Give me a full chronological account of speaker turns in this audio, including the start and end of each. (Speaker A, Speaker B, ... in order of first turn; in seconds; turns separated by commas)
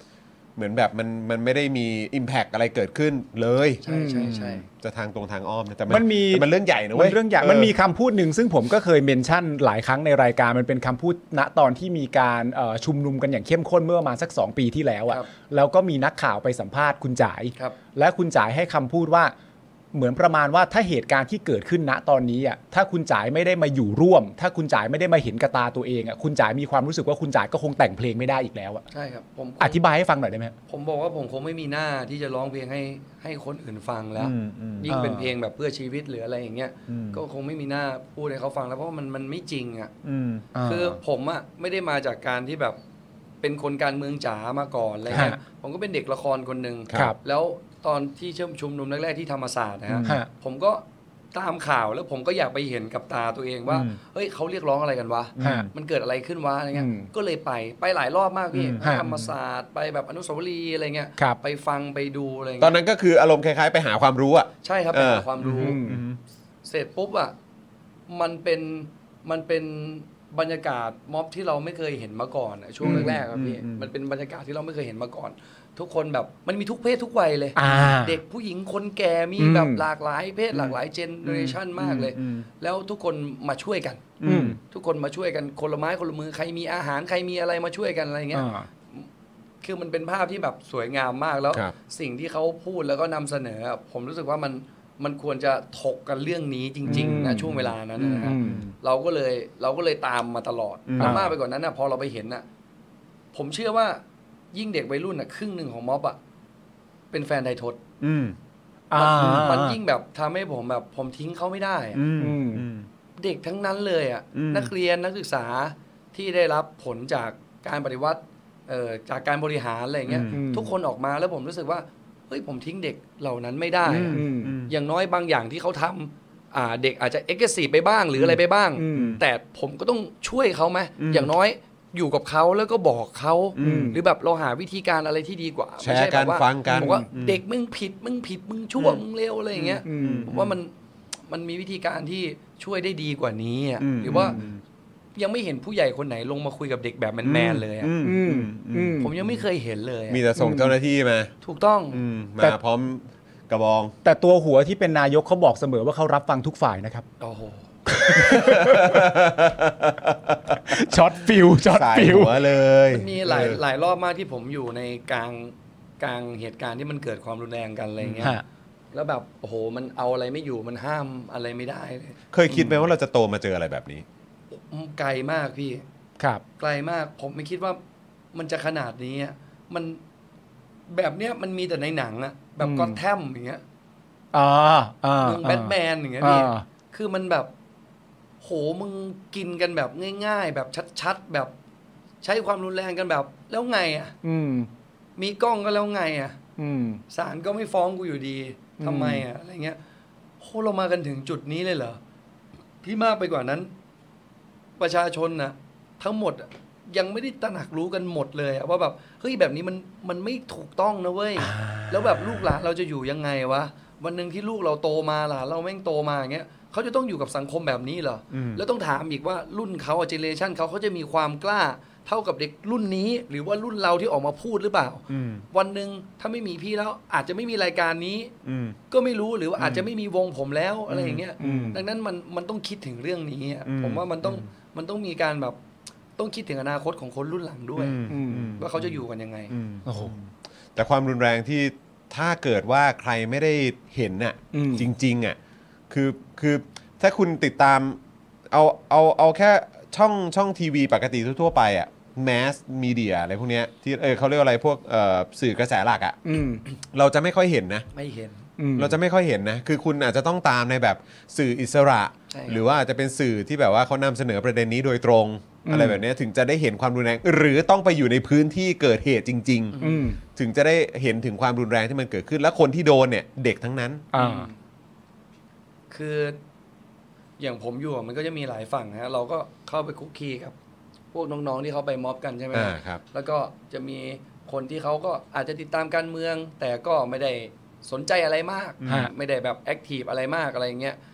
Speaker A: 0.6-7.7, Speaker B: 3.8-4.7, Speaker C: 3.9-4.6, Speaker C: 5.9-19.3, Speaker C: 19.9-28.9, Speaker B: 28.9-29.8, Speaker C: 29.6-30.5, Speaker B: 30.7-39.9, Speaker A: 34.2-34.9, Speaker C: 34.9-35.4, Speaker A: 36.9-37.2, Speaker A: 40.0-40.5, Speaker C: 40.5-41.0, Speaker B: 40.6-42.8, Speaker B: 43.4-62.8, Speaker C: 45.1-45.4, Speaker A: 49.9-50.2, Speaker C: 50.0-50.3, Speaker A: 53.7-54.0, Speaker A: 55.4-55.7, Speaker C: 55.4-55.7, Speaker C: 56.7-57.1, Speaker A: 58.5-58.8, Speaker C: 58.8-59.3, Speaker A: 62.6-66.2, Speaker B: 64.6-65.8, Speaker C: 65.4-66.0, Speaker B: 66.7-67.3, Speaker B: 68.1-84.2, Speaker A: 72.8-73.9, Speaker C: 72.8-73.3, Speaker C: 77.6-78.2, Speaker C: 79.4-79.9, Speaker A: 80.5-82.5, Speaker A: 84.2-84.6, Speaker C: 84.2-84.6, Speaker B: 84.7-89.1, Speaker C: 88.3-88.7, Speaker B: 89.6-102.5, Speaker C: 96.9-97.7, Speaker A: 96.9-98.7, Speaker C: 98.2-98.7, Speaker A: 100.9-101.3, Speaker C: 101.0-101.3, Speaker B: 103.3-104.0, Speaker B: 104.5-106.2, Speaker B: 107.1-107.8, Speaker A: 108.0-108.4, Speaker C: 108.9-109.8, Speaker B: 108.9-112.0, Speaker A: 111.9-112.9, Speaker C: 112.2-112.7, Speaker B: 113.2-140.7, Speaker A: 114.3-114.7, Speaker A: 120.1-120.4, Speaker C: 120.3-120.8, Speaker A: 123.8-124.7, Speaker C: 124.1-124.6, Speaker C: 128.8-129.2, Speaker A: 128.9-129.2, Speaker A: 131.0-131.3, Speaker A: 133.6-133.9, Speaker C: 133.6-134.0, Speaker A: 135.8-137.4, Speaker C: 136.7-137.1, Speaker A: 139.5-140.6, Speaker C: 139.8-140.3, Speaker B: 141.3-144.4, Speaker A: 143.8-144.6, Speaker C: 144.1-144.5, Speaker B: 145.2-147.9, Speaker A: 147.2-149.4, Speaker C: 148.0-149.1, Speaker B: 149.0-150.2, Speaker A: 150.1-151.3, Speaker C: 150.3-150.7, Speaker B: 151.4-152.0, Speaker A: 151.9-153.9, Speaker C: 154.0-157.1, Speaker B: 157.2-157.7, Speaker C: 157.9-159.1, Speaker A: 158.0-160.8, Speaker C: 160.6-162.3, Speaker A: 161.6-163.6, Speaker B: 162.9-168.4, Speaker A: 168.0-168.4, Speaker B: 168.9-172.9, Speaker A: 172.3-174.1, Speaker B: 174.7-175.8, Speaker B: 176.6-177.8, Speaker B: 178.3-180.0, Speaker B: 180.9-183.6, Speaker C: 182.6-183.0, Speaker C: 184.3-186.7, Speaker B: 185.2-187.5, Speaker B: 188.4-191.5, Speaker B: 192.2-194.2, Speaker C: 194.2-194.7, Speaker B: 195.2-196.4, Speaker C: 196.6-197.0, Speaker B: 197.1-199.8, Speaker C: 198.8-199.3, Speaker B: 200.4-202.0, Speaker B: 202.8-203.7, Speaker B: 204.8-228.3, Speaker C: 211.4-212.5, Speaker A: 218.3-218.6, Speaker A: 225.1-225.4, Speaker A: 228.4-228.8, Speaker B: 228.9-235.6, Speaker A: 229.6-229.9, Speaker A: 230.9-231.6, Speaker C: 231.4-231.8, Speaker A: 233.7-234.4, Speaker B: 236.2-238.0, Speaker A: 237.8-245.4, Speaker C: 238.1-238.6, Speaker B: 238.6-239.5, Speaker C: 239.9-240.1, Speaker C: 244.5-244.9, Speaker A: 245.9-248.0, Speaker A: 248.5-256.2, Speaker C: 256.2-256.6, Speaker A: 256.9-257.9, Speaker B: 257.9-258.4, Speaker C: 258.6-259.0, Speaker A: 258.8-269.8, Speaker B: 262.3-262.6, Speaker C: 265.6-266.0, Speaker B: 269.7-270.1, Speaker C: 269.8-270.2, Speaker A: 270.4-274.1, Speaker C: 274.1-274.5, Speaker B: 274.1-274.6, Speaker B: 275.9-276.4, Speaker B: 277.4-280.6, Speaker B: 281.1-291.0, Speaker A: 282.5-283.0, Speaker A: 288.8-289.1, Speaker C: 288.9-289.1